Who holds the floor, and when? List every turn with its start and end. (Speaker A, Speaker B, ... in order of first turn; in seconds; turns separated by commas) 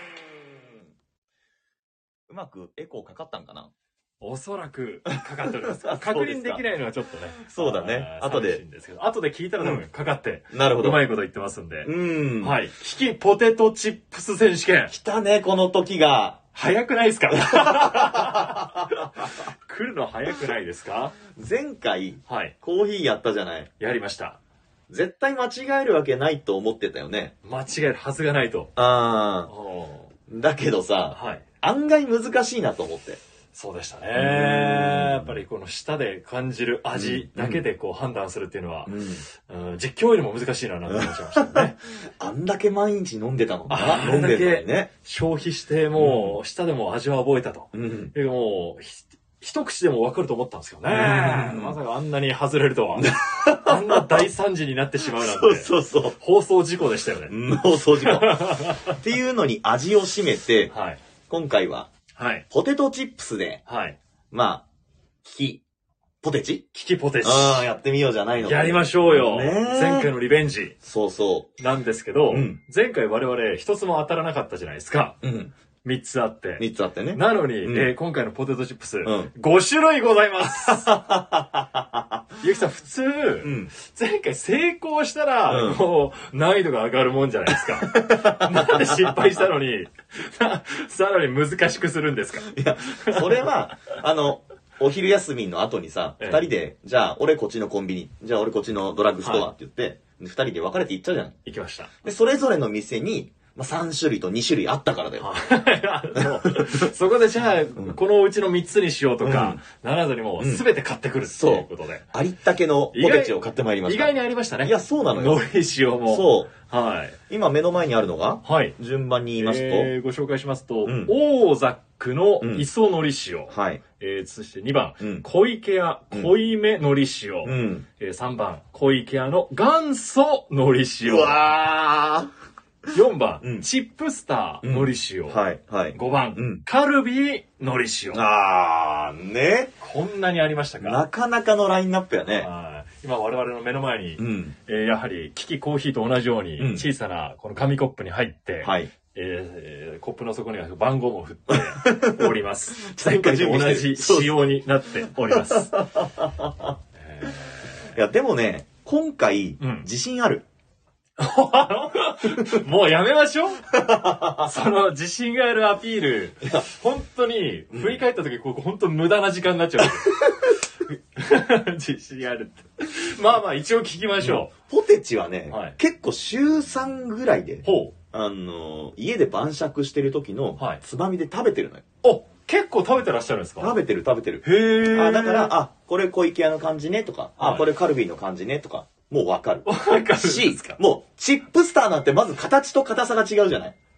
Speaker A: 0.5-0.8, Speaker A: 2.3-3.7, Speaker B: 4.2-14.9, Speaker A: 5.5-6.6, Speaker A: 7.5-8.6, Speaker A: 10.5-11.0, Speaker A: 11.8-12.6, Speaker A: 14.9-16.4, Speaker B: 16.5-21.2, Speaker A: 17.4-19.3, Speaker A: 21.3-23.7, Speaker B: 22.3-22.6, Speaker B: 23.8-24.4, Speaker A: 24.9-27.3, Speaker B: 27.4-28.7, Speaker A: 28.8-29.5, Speaker B: 29.5-30.1, Speaker A: 30.3-33.2, Speaker B: 31.1-31.4, Speaker B: 33.5-41.8, Speaker A: 34.1-35.4, Speaker A: 36.9-37.6, Speaker A: 38.9-39.2, Speaker A: 40.9-44.9, Speaker B: 43.7-57.4, Speaker A: 45.9-46.4, Speaker A: 47.7-48.1, Speaker A: 50.9-51.8, Speaker A: 53.0-54.3, Speaker A: 55.1-56.2, Speaker A: 57.3-60.7, Speaker B: 58.0-59.0, Speaker B: 60.7-61.0, Speaker A: 61.3-61.9, Speaker B: 62.1-62.4, Speaker A: 62.5-63.6, Speaker B: 63.6-64.0, Speaker A: 64.3-64.7, Speaker A: 65.2-65.6, Speaker A: 66.2-66.6, Speaker B: 66.7-67.7, Speaker A: 67.2-70.1, Speaker B: 68.4-70.7, Speaker A: 70.8-71.5, Speaker B: 71.6-75.2, Speaker A: 72.3-72.6, Speaker A: 75.2-75.5, Speaker B: 75.8-81.0, Speaker A: 76.6-77.9, Speaker A: 79.0-79.3, Speaker A: 80.7-82.2, Speaker B: 82.4-93.5, Speaker A: 83.4-83.7, Speaker A: 85.5-85.8, Speaker A: 87.7-89.5, Speaker A: 92.5-101.3, Speaker B: 96.2-96.5, Speaker B: 99.2-99.5, Speaker B: 101.4-101.9, Speaker A: 102.0-105.3, Speaker B: 105.2-112.1, Speaker A: 106.2-106.9, Speaker A: 109.2-109.6, Speaker A: 110.4-110.6, Speaker A: 111.3-115.5, Speaker B: 112.9-117.2, Speaker A: 116.0-116.5, Speaker A: 117.3-119.9, Speaker B: 118.4-118.8, Speaker B: 119.4-131.5, Speaker A: 120.8-121.1, Speaker A: 122.4-122.7, Speaker A: 123.5-123.8, Speaker A: 125.0-125.3, Speaker A: 127.4-127.8, Speaker A: 131.0-132.3, Speaker B: 132.9-135.4, Speaker A: 134.6-136.6, Speaker B: 135.9-138.2, Speaker A: 138.1-139.7, Speaker B: 139.8-141.0, Speaker A: 140.8-142.5, Speaker B: 142.3-155.8, Speaker A: 144.2-144.5, Speaker A: 146.6-146.9, Speaker A: 148.6-148.9, Speaker A: 151.5-154.4, Speaker A: 155.2-156.7, Speaker B: 157.0-157.9, Speaker A: 157.9-160.4, Speaker B: 159.6-159.9, Speaker B: 161.2-163.7, Speaker A: 163.7-164.6, Speaker B: 164.4-174.5, Speaker A: 167.7-168.0, Speaker A: 170.1-170.4, Speaker A: 174.2-181.8, Speaker B: 175.5-175.8, Speaker B: 177.6-177.9, Speaker B: 182.0-183.8, Speaker A: 183.6-193.8, Speaker B: 184.4-185.6, Speaker B: 187.4-187.7, Speaker B: 189.6-190.8